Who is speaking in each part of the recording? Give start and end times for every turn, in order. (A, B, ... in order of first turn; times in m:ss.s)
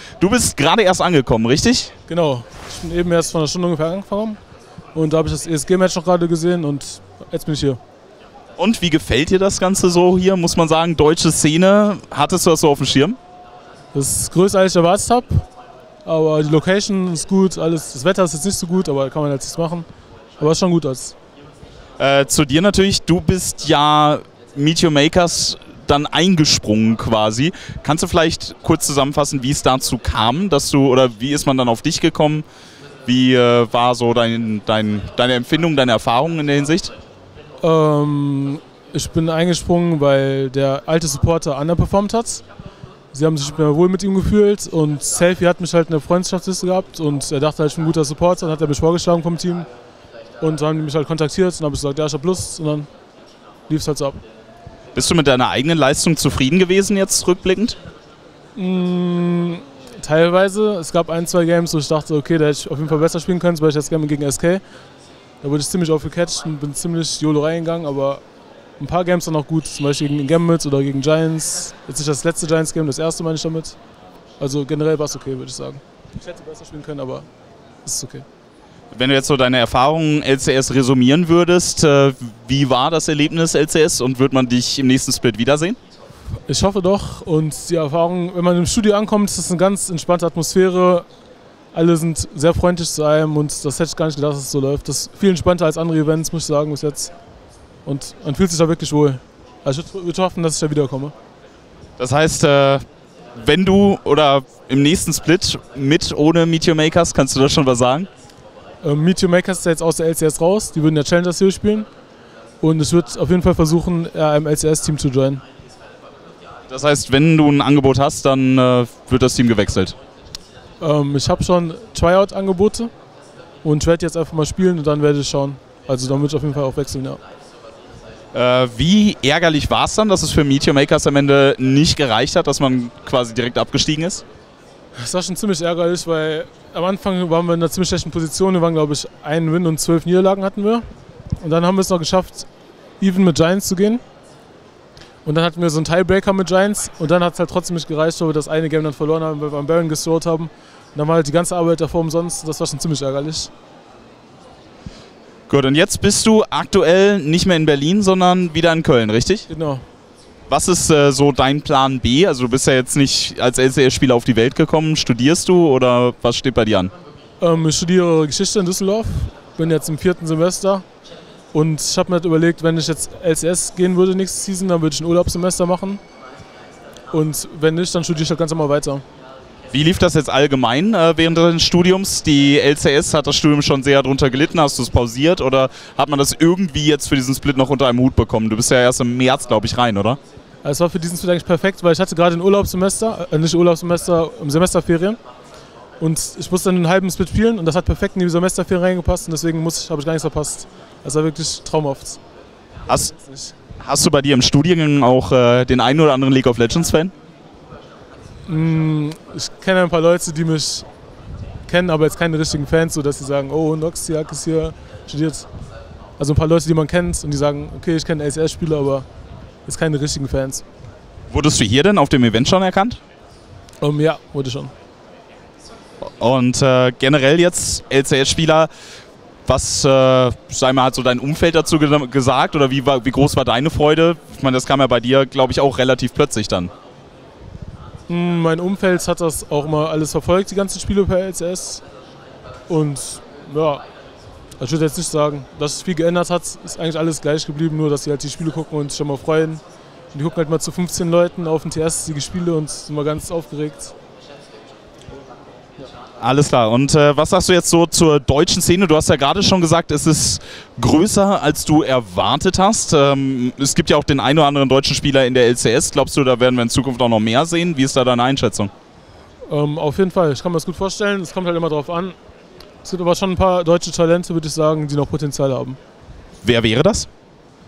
0:00.2-0:01.9 A
0:02.1-0:04.4 B
0:04.9-0:07.8 B
0:08.6-0:13.2 A
0:13.9-0:15.4 B
0:16.0-0:19.9 B
0:20.4-0:21.1 B
0:22.0-0:32.4 A
0:33.0-0:36.9 A
0:37.6-0:42.4 B
0:43.1-0:49.7 B
0:50.4-0:52.9 B
0:53.7-0:54.2 B
0:54.9-0:57.8 A
0:58.6-1:04.6 B
1:05.4-1:08.2 B
1:08.8-1:13.8 B
1:14.4-1:17.3 B
1:17.8-1:18.2 B
1:18.9-1:25.8 A
1:26.5-1:31.0 B
1:31.7-1:37.1 B
1:37.8-1:41.1 B
1:42.0-1:42.8 A
1:43.4-1:48.1 A
1:48.8-1:51.9 B
1:52.6-1:55.4 B
1:56.7-1:59.9 A
2:00.8-2:02.9 B
2:03.6-2:07.2 B
2:08.3-2:14.2 A
2:15.0-2:20.8 B
2:21.4-2:22.5 B
2:23.0-2:24.0 B
2:25.2-2:33.5 B
2:35.5-2:39.5 A
2:39.5-2:39.8 B
2:40.5-2:46.9 A
2:47.4-2:50.8 B
2:51.5-2:56.0 B
2:57.1-2:59.0 B
2:59.7-3:10.2 A
3:10.6-3:15.2 B
3:16.0-3:22.2 B
3:23.1-3:23.5 B
3:23.8-3:27.1 A
3:28.5-3:30.8 B
3:31.7-3:35.5 B
3:36.2-3:39.0 B
3:39.6-3:40.6 B
3:41.3-3:43.0 A
3:43.8-3:44.7 B
3:46.2-3:48.7 A
3:49.4-3:56.7 A
3:58.1-4:01.8 B
4:02.7-4:03.8 B
4:04.6-4:09.6 B
4:10.1-4:13.9 B
4:16.2-4:28.7 A
4:29.5-4:32.2 B
4:32.8-4:35.8 B
4:36.4-4:37.1 A